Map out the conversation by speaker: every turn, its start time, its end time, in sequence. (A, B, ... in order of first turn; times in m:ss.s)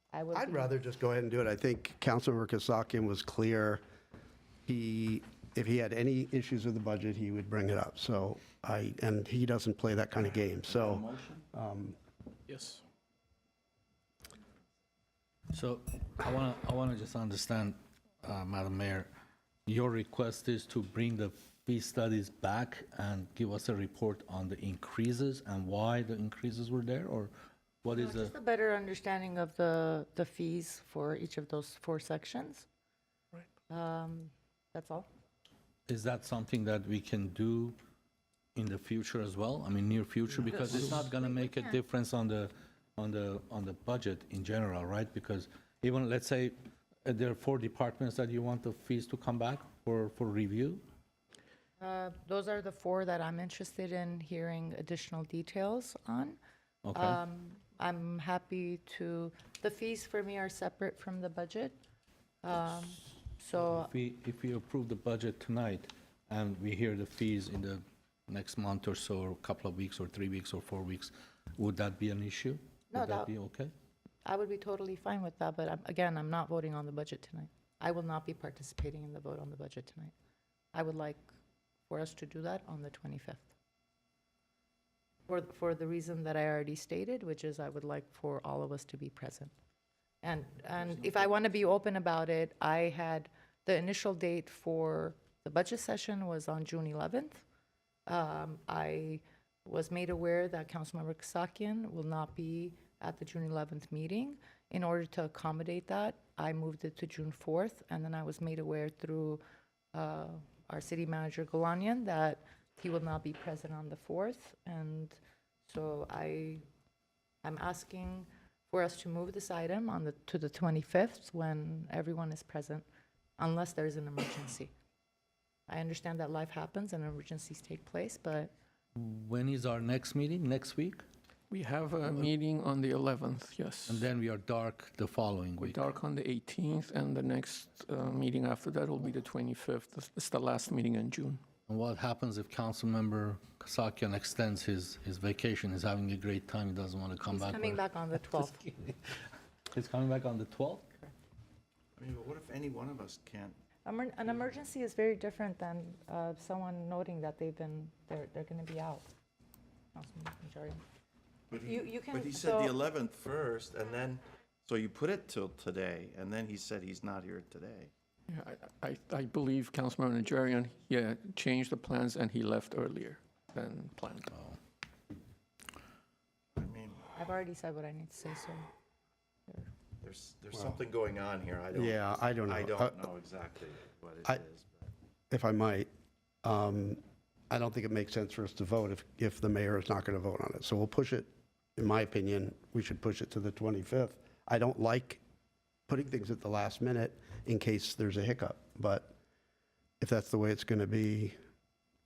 0:00.1-0:00.8 A
0:00.3-0:03.8 B
0:04.7-0:12.0 B
0:10.7-0:11.4 C
0:12.5-0:12.8 D
0:15.5-0:19.1 E
0:19.7-0:27.3 E
0:27.8-0:28.3 E
0:27.9-0:32.7 A
0:33.7-0:35.1 A
0:35.9-0:37.8 E
0:38.6-0:50.8 E
0:41.2-0:41.6 A
0:51.8-0:56.4 A
0:56.8-0:57.2 E
0:56.9-1:01.8 A
1:02.4-1:03.9 A
1:03.6-1:13.7 E
1:12.9-1:13.3 A
1:14.2-1:20.1 A
1:20.7-1:21.2 A
1:21.9-1:23.5 A
1:25.3-1:29.5 A
1:30.2-1:37.4 A
1:38.1-1:49.4 A
1:49.9-1:56.6 A
1:57.4-2:02.8 A
2:03.4-2:04.7 A
2:05.7-2:08.5 A
2:09.0-2:11.0 E
2:11.5-2:14.1 D
2:13.9-2:15.8 E
2:15.6-2:21.4 D
2:21.7-2:30.9 E
2:27.3-2:28.7 A
2:32.0-2:33.6 C
2:33.9-2:39.1 A
2:40.0-2:40.8 A
2:41.5-2:47.9 C
2:41.7-2:42.7 A
2:48.3-2:54.3 D
2:56.6-2:57.1 C
2:57.2-2:58.7 A
3:00.0-3:04.9 C
3:01.7-3:03.0 B
3:05.3-3:05.9 B
3:06.4-3:15.2 B
3:15.9-3:19.1 B
3:20.0-3:21.4 B